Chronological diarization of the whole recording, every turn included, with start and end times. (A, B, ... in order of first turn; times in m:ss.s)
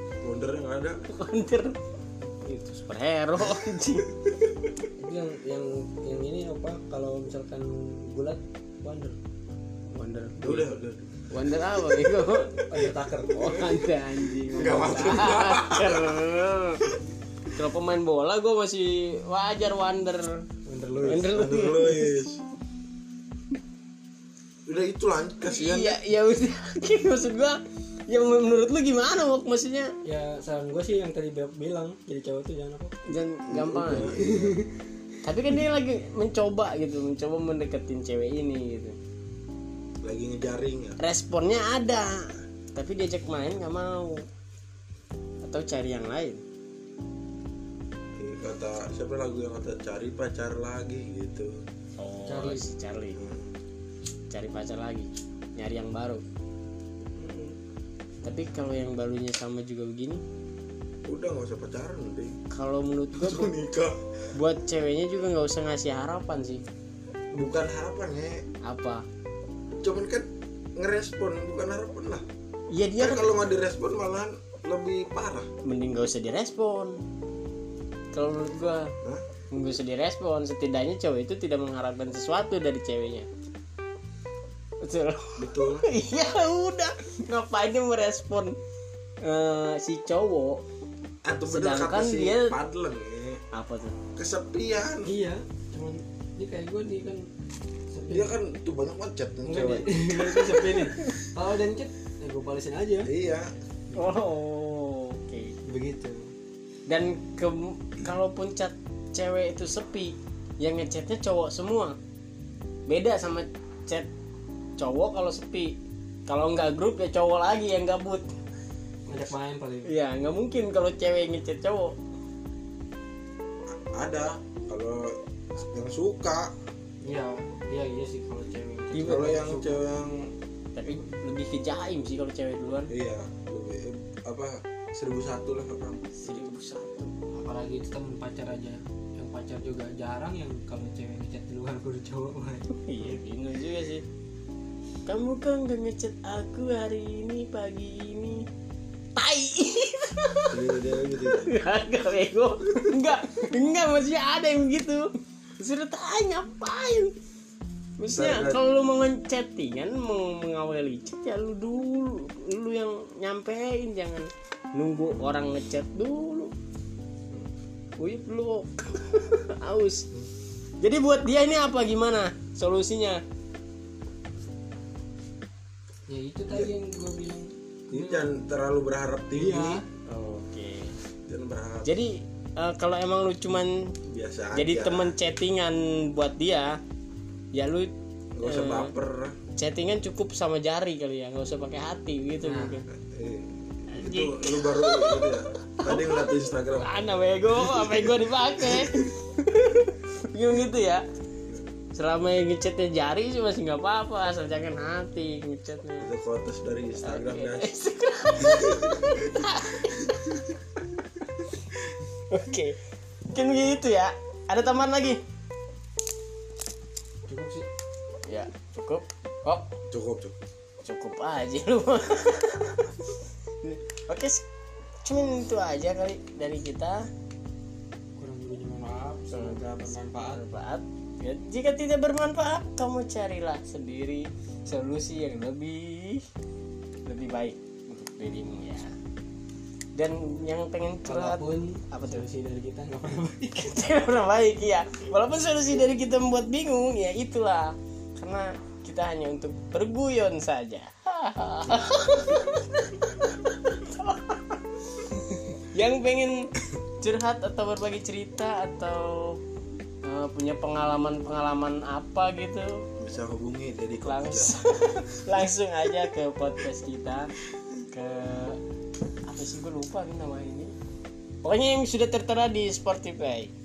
0:00.2-0:01.0 A
0:01.1-0:01.8 B
0:02.3-0:04.1 B
0:05.0-0:09.2 C
0:09.9-0:10.7 B
0:10.4-0:12.8 A
0:11.3-0:12.7 B
0:12.6-0:14.0 C
0:13.2-0:16.9 B
0:14.5-0:16.2 A
0:14.6-0:15.2 C
0:17.5-0:20.3 B
0:20.7-0:21.3 C
0:21.0-0:22.1 B
0:21.2-0:22.4 A
0:24.7-0:26.0 A
0:25.4-0:29.9 B
0:30.0-0:33.0 C
0:33.1-0:34.1 B
0:33.5-0:34.6 A
0:34.0-0:34.7 C
0:35.2-0:39.0 B
0:40.0-0:41.0 A
0:41.0-0:44.2 B
0:45.4-0:46.4 B
0:48.2-0:51.5 A
0:52.0-0:53.2 B
0:52.2-0:52.7 C
0:53.1-0:53.5 A
0:54.3-0:56.2 B
0:57.2-0:57.6 A
0:58.2-1:00.2 B
1:01.1-1:02.4 A
1:02.5-1:03.5 B
1:03.1-1:04.0 A
1:04.3-1:06.6 B
1:07.3-1:08.4 A
1:08.6-1:09.0 B
1:09.8-1:12.2 A
1:12.7-1:13.6 B
1:12.9-1:15.5 A
1:15.6-1:17.0 B
1:18.1-1:18.9 B
1:19.5-1:23.3 B
1:24.8-1:28.6 B
1:25.4-1:25.8 A
1:29.2-1:30.6 B
1:31.2-1:33.4 A
1:31.5-1:32.6 B
1:33.5-1:34.0 B
1:34.2-1:35.1 A
1:35.0-1:37.3 C
1:37.9-1:38.4 C
1:38.1-1:40.0 A
1:39.4-1:43.1 C
1:40.3-1:40.8 B
1:43.0-1:43.5 A
1:43.9-1:44.2 C
1:43.9-1:45.5 B
1:45.6-1:46.2 C
1:46.9-1:52.0 B
1:52.9-1:54.1 B
1:54.8-1:55.8 B
1:56.3-1:58.3 B
1:59.1-1:59.9 C
1:59.8-2:02.0 B
2:03.7-2:06.5 A
2:07.0-2:09.8 C
2:08.9-2:09.4 B
2:09.0-2:10.3 A
2:10.8-2:12.9 B
2:12.9-2:16.4 A
2:16.2-2:17.1 B
2:17.3-2:23.2 C
2:22.7-2:24.0 B
2:25.1-2:28.4 B
2:29.2-2:30.6 B
2:30.5-2:31.5 A
2:31.3-2:35.1 B
2:35.6-2:37.1 B
2:38.0-2:46.5 B
2:38.0-2:38.6 A
2:48.0-2:50.1 B
2:50.8-2:53.2 B
2:56.1-2:58.3 C
2:57.9-2:59.8 A
2:59.3-2:59.8 C
3:00.1-3:00.9 B
3:01.3-3:01.9 A
3:01.8-3:03.9 B
3:04.1-3:05.2 A
3:04.5-3:06.8 B
3:07.5-3:08.9 B
3:08.4-3:09.4 A
3:09.6-3:12.9 B
3:12.4-3:12.8 C
3:12.9-3:16.9 A
3:13.9-3:21.0 B
3:21.9-3:26.1 B
3:26.0-3:27.7 A
3:27.0-3:30.4 B
3:28.4-3:29.0 A
3:32.3-3:32.8 B
3:33.3-3:35.2 B
3:37.3-3:37.7 C
3:38.2-3:39.7 B
3:39.9-3:40.4 A
3:40.8-3:43.0 B
3:43.6-3:44.4 B
3:45.0-3:47.0 B
3:48.2-3:50.4 C
3:49.3-3:56.2 B
3:57.1-3:58.9 B
3:59.9-4:02.2 B
4:01.0-4:03.7 C
4:03.6-4:14.6 B
4:15.1-4:16.4 B
4:17.0-4:19.4 B
4:20.0-4:22.8 B
4:23.0-4:24.5 A
4:24.0-4:27.3 B
4:27.9-4:28.6 B
4:29.2-4:30.7 B
4:31.4-4:33.5 B